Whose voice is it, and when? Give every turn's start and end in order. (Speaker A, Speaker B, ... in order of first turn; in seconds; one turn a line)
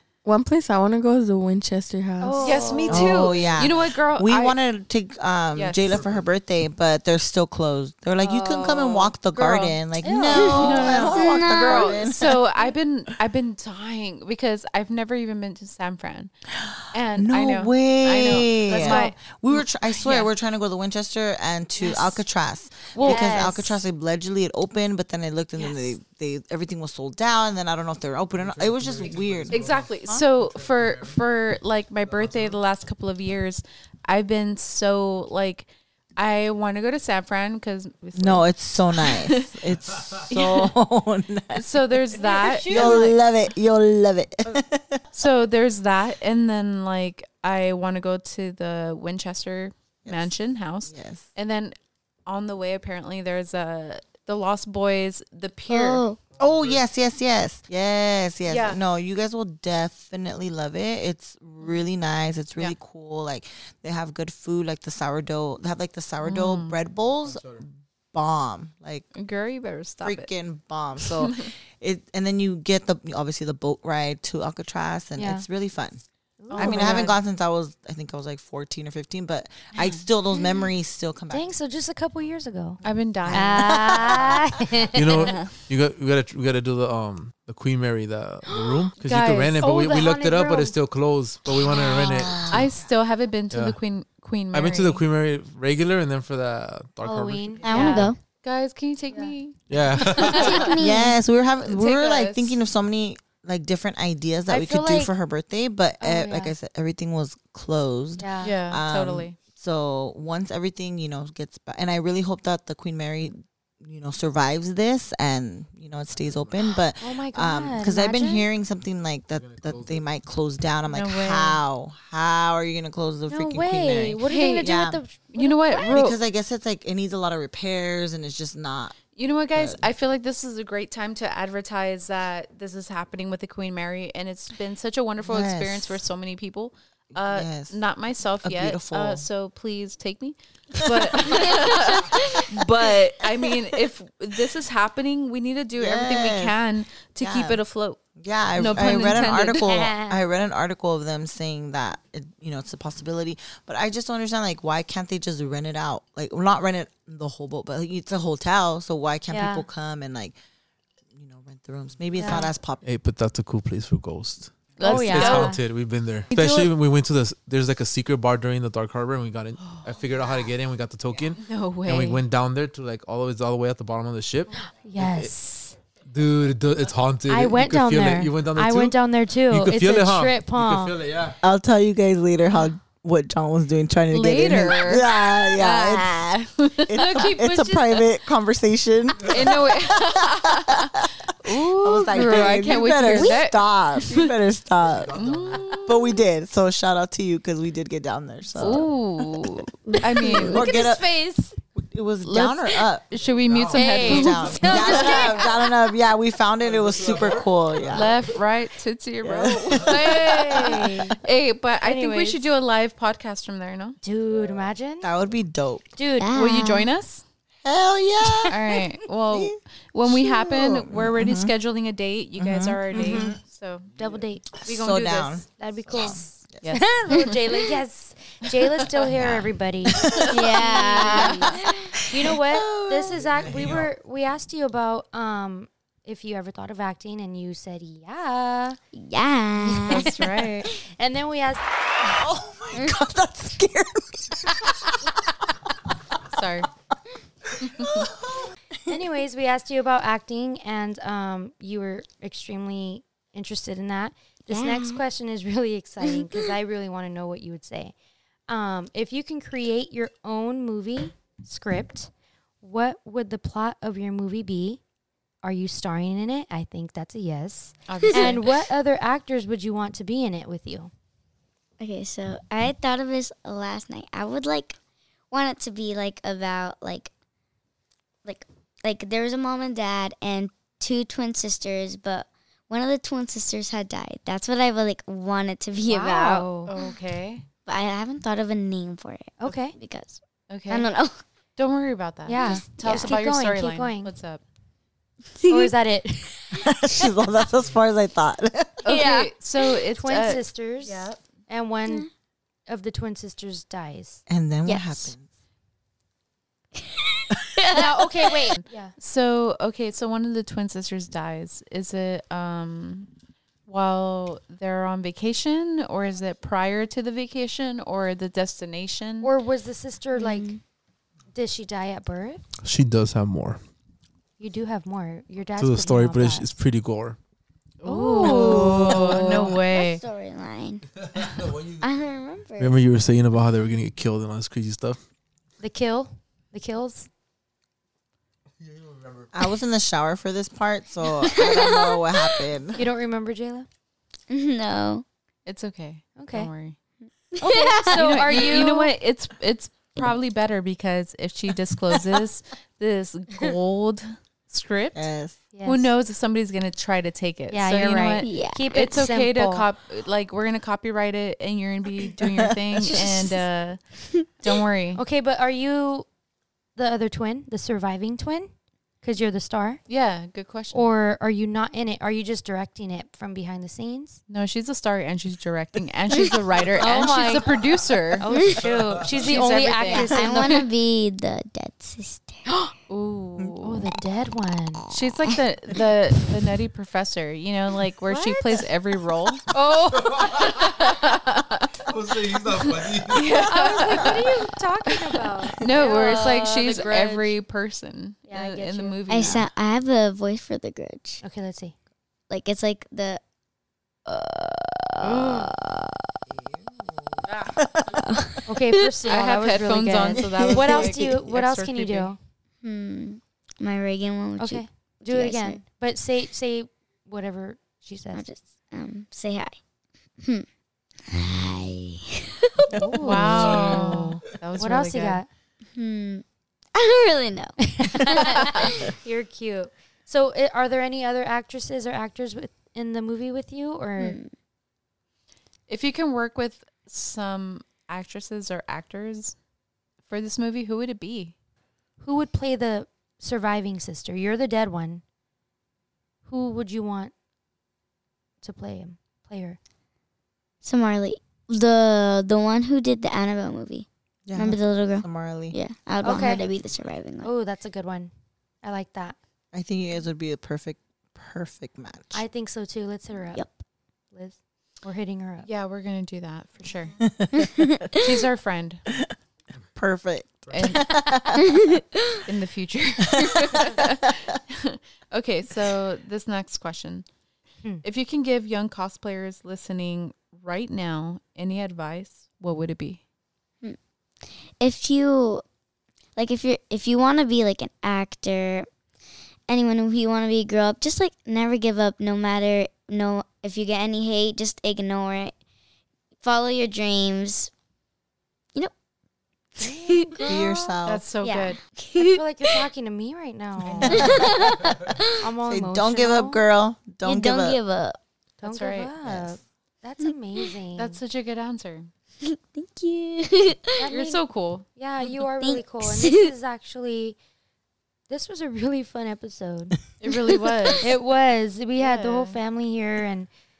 Speaker A: 0.2-2.8
Speaker B: 2.2-3.2
Speaker C: 2.4-4.6
Speaker D: 2.9-12.4
Speaker C: 5.5-6.0
Speaker E: 6.0-6.2
Speaker B: 8.2-9.1
Speaker C: 9.3-9.8
Speaker B: 10.0-11.1
Speaker F: 10.3-12.1
Speaker C: 10.4-16.3
Speaker D: 16.6-29.7
Speaker C: 16.9-20.3
Speaker B: 18.8-19.1
Speaker C: 22.9-23.8
Speaker B: 23.0-23.6
Speaker E: 28.3-31.2
Speaker C: 29.5-39.6
Speaker E: 32.0-32.6
Speaker D: 38.1-41.8
Speaker C: 40.3-40.7
Speaker C: 41.5-43.2
Speaker B: 42.2-43.0
Speaker D: 42.6-45.0
Speaker C: 45.1-56.0
Speaker D: 50.0-50.3
Speaker D: 50.9-51.3
Speaker F: 55.7-56.2
Speaker D: 56.4-69.1
Speaker E: 56.5-56.7
Speaker C: 58.5-58.8
Speaker C: 66.2-66.8
Speaker E: 67.2-67.6
Speaker C: 69.1-70.3
Speaker D: 70.0-76.0
Speaker C: 71.0-71.5
Speaker B: 75.2-75.4
Speaker B: 76.4-77.1
Speaker C: 76.5-77.1
Speaker D: 76.5-81.5
Speaker B: 81.3-85.3
Speaker C: 82.8-84.3
Speaker D: 83.2-84.4
Speaker E: 84.9-92.7
Speaker C: 85.1-85.7
Speaker B: 88.5-88.9
Speaker C: 89.0-89.6
Speaker B: 89.5-90.8
Speaker B: 91.5-92.5
Speaker C: 91.7-95.0
Speaker D: 92.0-92.7
Speaker E: 93.5-93.8
Speaker E: 94.5-97.9
Speaker B: 97.0-98.1
Speaker F: 97.6-98.2
Speaker C: 97.7-100.8
Speaker E: 99.7-100.7
Speaker F: 100.2-101.2
Speaker D: 100.8-125.0
Speaker C: 101.6-102.6
Speaker B: 104.5-105.1
Speaker B: 106.0-106.5
Speaker B: 108.2-108.5
Speaker C: 108.4-109.4
Speaker E: 116.1-116.7
Speaker B: 117.0-118.5
Speaker E: 119.3-120.0
Speaker C: 120.9-121.6
Speaker B: 123.3-126.0
Speaker C: 124.2-124.7
Speaker C: 125.3-126.2
Speaker D: 125.8-129.0
Speaker C: 129.1-148.0
Speaker D: 129.5-129.8
Speaker D: 135.2-136.0
Speaker D: 137.1-137.8
Speaker D: 138.4-139.2
Speaker D: 140.8-141.6
Speaker D: 142.1-142.6
Speaker D: 145.8-146.6
Speaker D: 147.2-147.6
Speaker D: 148.2-160.3
Speaker C: 148.6-149.8
Speaker E: 148.6-149.0
Speaker B: 149.5-150.2
Speaker B: 159.3-159.6
Speaker D: 161.1-162.8
Speaker B: 162.2-162.5
Speaker E: 162.8-175.3
Speaker C: 164.8-165.6
Speaker B: 164.8-165.6
Speaker C: 166.3-166.7
Speaker C: 169.6-170.0
Speaker C: 171.4-172.2
Speaker B: 174.5-175.8
Speaker E: 176.1-181.4
Speaker B: 177.3-180.9
Speaker D: 181.4-198.9
Speaker C: 184.1-187.5
Speaker B: 186.9-188.0
Speaker C: 189.2-194.3
Speaker E: 195.0-195.6
Speaker C: 195.1-196.2
Speaker C: 198.6-201.5
Speaker F: 200.2-200.6
Speaker D: 200.2-201.1
Speaker D: 201.8-203.1
Speaker C: 202.2-205.4
Speaker E: 203.2-204.0
Speaker B: 203.7-205.7
Speaker D: 203.9-208.2
Speaker E: 206.7-208.1
Speaker C: 207.9-214.0
Speaker D: 209.2-210.7
Speaker B: 209.9-211.2
Speaker B: 211.8-212.4
Speaker B: 214.0-215.1
Speaker D: 215.0-215.9
Speaker B: 215.9-216.3
Speaker F: 216.2-216.9
Speaker C: 216.3-217.2
Speaker D: 217.6-218.6
Speaker C: 218.5-223.9
Speaker D: 219.3-221.5
Speaker D: 222.4-223.4
Speaker B: 222.9-223.3
Speaker B: 223.9-224.6
Speaker D: 224.6-226.7
Speaker C: 224.6-225.4
Speaker B: 225.5-238.8
Speaker C: 226.6-227.4
Speaker D: 229.1-230.4
Speaker F: 230.3-231.8
Speaker C: 230.3-231.6
Speaker D: 231.9-233.8
Speaker F: 238.9-240.1
Speaker B: 239.7-241.6
Speaker C: 239.7-240.7
Speaker D: 242.0-245.1
Speaker F: 242.7-243.0
Speaker C: 246.3-246.7
Speaker D: 247.6-248.9
Speaker B: 248.9-257.9
Speaker F: 254.5-255.0
Speaker F: 256.0-256.5
Speaker B: 258.5-264.8
Speaker B: 265.4-270.9
Speaker C: 267.9-268.5
Speaker F: 271.8-274.8
Speaker F: 275.3-277.1
Speaker F: 278.2-286.8
Speaker B: 285.8-286.7
Speaker C: 286.6-287.4
Speaker F: 287.6-291.2
Speaker B: 289.4-289.8
Speaker C: 290.5-290.9
Speaker C: 291.6-294.4
Speaker B: 292.2-294.1
Speaker F: 292.4-293.1
Speaker F: 295.4-295.7
Speaker B: 295.4-296.6
Speaker D: 296.5-298.9
Speaker C: 298.8-301.2
Speaker F: 298.9-299.3
Speaker B: 300.0-302.1
Speaker B: 302.7-304.2
Speaker D: 304.3-305.3
Speaker F: 304.7-304.9
Speaker F: 306.8-307.7
Speaker B: 307.7-308.9
Speaker C: 308.5-313.1
Speaker C: 313.7-319.3
Speaker B: 319.2-320.5
Speaker F: 320.1-320.6
Speaker B: 321.3-322.4
Speaker E: 322.6-323.6
Speaker B: 324.4-326.6
Speaker E: 325.6-327.2
Speaker C: 327.8-330.0
Speaker B: 327.8-328.8
Speaker D: 328.2-329.4
Speaker F: 328.4-332.7
Speaker E: 331.3-331.8
Speaker E: 332.6-335.0
Speaker B: 335.6-337.1
Speaker E: 338.7-339.2
Speaker D: 339.3-342.8
Speaker F: 341.2-342.4
Speaker B: 342.8-343.7
Speaker F: 344.3-345.0
Speaker C: 345.4-346.8
Speaker B: 346.2-346.5
Speaker F: 347.3-348.4
Speaker B: 347.4-348.9
Speaker C: 347.8-355.1
Speaker D: 354.9-355.4
Speaker B: 355.5-355.9
Speaker C: 355.6-363.8
Speaker B: 357.5-359.6
Speaker F: 358.2-358.6
Speaker D: 362.3-362.5
Speaker F: 362.9-363.1
Speaker C: 364.4-365.0
Speaker B: 364.9-366.1
Speaker B: 366.8-368.5
Speaker B: 369.0-369.8
Speaker C: 369.9-370.9
Speaker B: 370.7-374.2
Speaker C: 374.3-378.3
Speaker B: 376.8-377.6
Speaker B: 378.2-380.6
Speaker F: 378.3-378.7
Speaker C: 379.1-380.4
Speaker F: 379.8-382.4
Speaker C: 382.9-383.9
Speaker B: 383.6-384.9
Speaker C: 384.9-389.5
Speaker B: 388.1-388.6
Speaker B: 389.5-390.7
Speaker C: 390.3-399.5
Speaker E: 392.0-393.0
Speaker B: 393.3-397.3
Speaker B: 398.3-399.4
Speaker F: 399.1-401.2
Speaker B: 401.2-401.7
Speaker F: 402.3-403.2
Speaker F: 404.1-406.1
Speaker C: 405.0-405.5
Speaker D: 406.5-408.0
Speaker C: 407.3-407.6
Speaker F: 407.9-408.4
Speaker B: 408.4-412.2
Speaker C: 409.1-412.1
Speaker D: 410.3-410.7
Speaker F: 412.6-415.6
Speaker B: 414.4-418.2
Speaker F: 418.1-419.6
Speaker F: 421.1-422.7
Speaker B: 422.7-425.3
Speaker C: 423.0-425.2
Speaker F: 425.7-426.2
Speaker F: 426.7-428.9
Speaker B: 427.6-434.2
Speaker F: 434.0-434.3
Speaker C: 435.7-439.4
Speaker C: 440.1-441.3
Speaker B: 442.0-445.0
Speaker B: 446.2-447.1
Speaker B: 448.4-449.6
Speaker F: 450.6-457.3
Speaker D: 454.3-455.6
Speaker B: 456.0-456.4
Speaker B: 457.2-458.1
Speaker B: 458.6-459.1
Speaker D: 459.5-462.2
Speaker B: 462.1-463.4
Speaker B: 464.1-465.5
Speaker C: 465.4-466.9
Speaker D: 467.0-467.5
Speaker F: 467.4-467.8
Speaker C: 467.9-468.8
Speaker D: 469.8-471.6
Speaker C: 470.5-470.9
Speaker F: 471.4-472.2
Speaker C: 472.3-477.1
Speaker C: 477.8-483.0
Speaker F: 483.6-485.4
Speaker F: 486.1-488.7
Speaker F: 489.5-495.3
Speaker F: 496.2-497.5
Speaker F: 499.6-502.6
Speaker B: 499.6-500.4
Speaker D: 500.2-501.0
Speaker C: 500.8-501.6
Speaker B: 501.9-504.4
Speaker C: 503.6-504.1
Speaker D: 503.9-504.3
Speaker F: 503.9-505.0
Speaker B: 505.1-506.4
Speaker D: 505.4-507.6
Speaker F: 507.0-508.0
Speaker C: 508.4-508.9
Speaker B: 508.4-511.0
Speaker D: 509.0-509.3
Speaker C: 510.8-511.9
Speaker F: 512.2-513.8
Speaker B: 513.8-517.2
Speaker C: 513.9-514.6
Speaker F: 515.4-516.3
Speaker B: 518.1-519.8
Speaker C: 520.0-520.9
Speaker B: 520.8-523.3
Speaker C: 521.8-522.4